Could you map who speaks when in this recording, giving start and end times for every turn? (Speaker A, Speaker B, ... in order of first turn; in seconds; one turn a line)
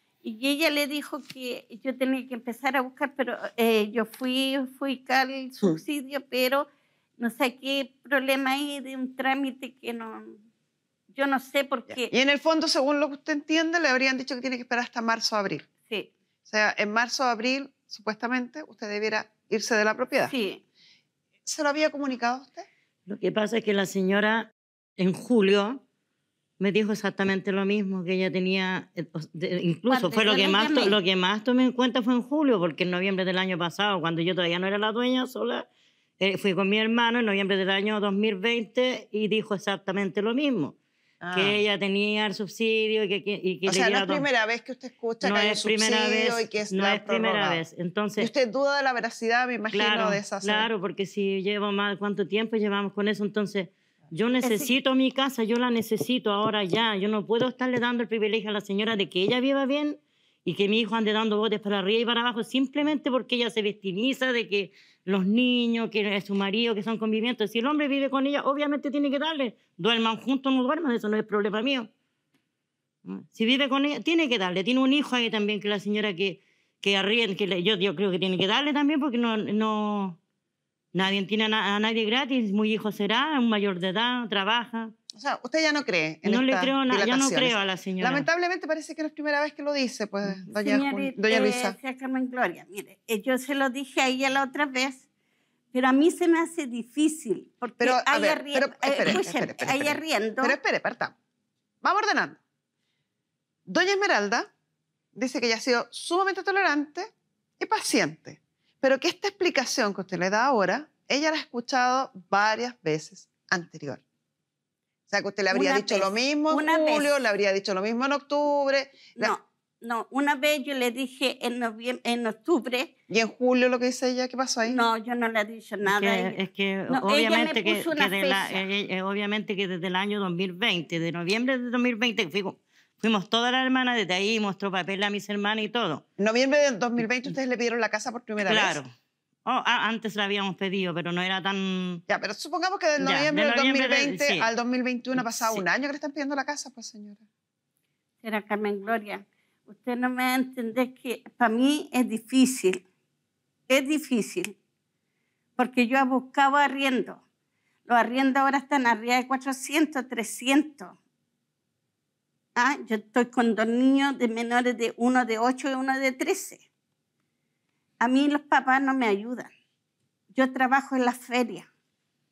Speaker A: 0.2-10.4
Speaker A: 11.1-12.1
Speaker B: 11.9-15.7
Speaker B: 16.5-20.3
Speaker A: 20.2-20.6
Speaker B: 21.5-22.7
Speaker C: 23.1-25.8
Speaker C: 26.6-35.7
Speaker A: 29.9-31.0
Speaker C: 36.2-40.8
Speaker B: 41.2-41.6
Speaker C: 41.3-44.2
Speaker B: 43.7-47.6
Speaker C: 45.2-48.3
Speaker B: 48.2-50.7
Speaker C: 49.7-71.9
Speaker A: 54.4-54.7
Speaker C: 73.0-80.2
Speaker C: 80.9-85.0
Speaker B: 85.1-91.8
Speaker C: 86.2-88.3
Speaker A: 90.6-95.0
Speaker A: 95.7-100.6
Speaker B: 97.8-101.2
Speaker B: 101.8-102.4
Speaker B: 103.7-104.5
Speaker B: 105.1-114.0
Speaker B: 115.1-119.3
Speaker A: 115.5-117.2
Speaker A: 119.2-122.9
Speaker B: 123.1-124.8
Speaker A: 124.7-128.7
Speaker C: 125.8-136.0
Speaker B: 136.2-138.8
Speaker C: 138.4-138.9
Speaker C: 139.4-142.0
Speaker B: 142.1-147.2
Speaker C: 143.0-144.5
Speaker C: 145.2-145.6
Speaker A: 148.2-152.8
Speaker A: 153.7-154.6
Speaker A: 155.6-157.2
Speaker A: 157.9-161.0
Speaker A: 162.6-166.6
Speaker A: 168.0-169.5
Speaker A: 170.3-171.7